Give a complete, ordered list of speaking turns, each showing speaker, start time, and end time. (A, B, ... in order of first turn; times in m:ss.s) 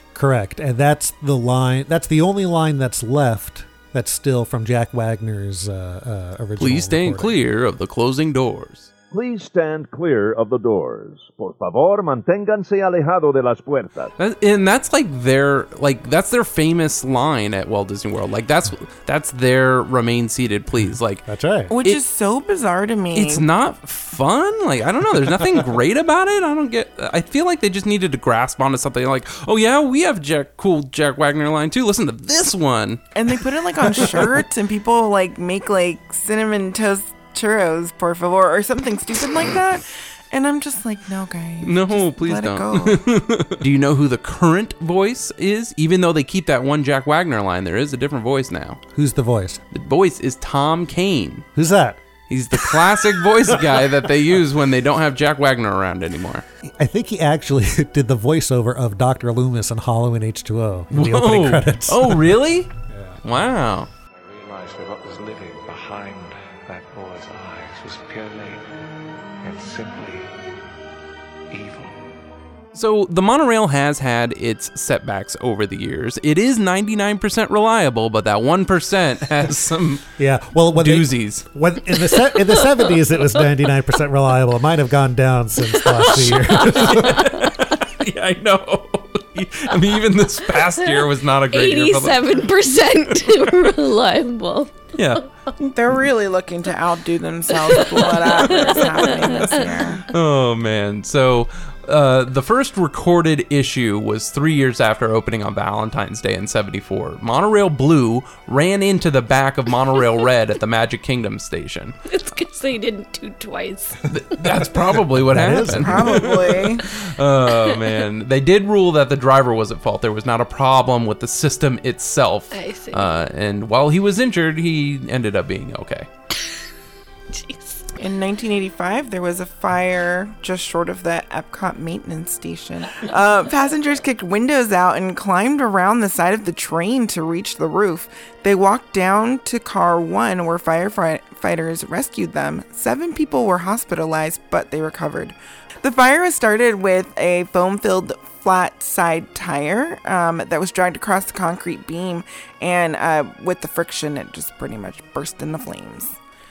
0:00.2-0:07.4 A
0:06.6-0:08.9 B
0:09.1-0:14.1 C
0:14.2-0:21.2 B
0:20.7-0:21.7 A
0:21.7-0:23.4 D
0:23.1-0:33.0 B
0:33.2-0:43.0 D
0:33.9-0:34.3 B
0:41.6-0:48.8 B
0:48.9-0:49.6 A
0:49.7-0:51.5 B
0:51.5-0:52.0 A
0:52.3-0:56.4 B
0:52.5-0:53.8 A
0:56.6-1:02.4 A
1:00.9-1:02.7 B
1:02.9-1:03.2 A
1:03.2-1:03.9 B
1:04.3-1:08.6 E
1:09.4-1:10.3 E
1:11.5-1:12.0 E
1:12.7-1:20.1 B
1:20.2-1:27.4 A
1:20.8-1:21.5 B
1:25.7-1:27.3 F
1:26.1-1:32.5 B
1:30.8-1:35.2 F
1:34.9-1:35.3 B
1:35.6-1:40.1 D
1:37.7-1:39.6 F
1:38.6-1:38.9 B
1:40.1-1:52.0 B
1:52.1-1:54.0 F
1:54.1-2:06.1 B
1:54.8-1:56.3 A
1:55.7-1:56.8 D
2:02.5-2:03.1 F
2:07.3-2:07.9 F
2:08.0-2:36.2 D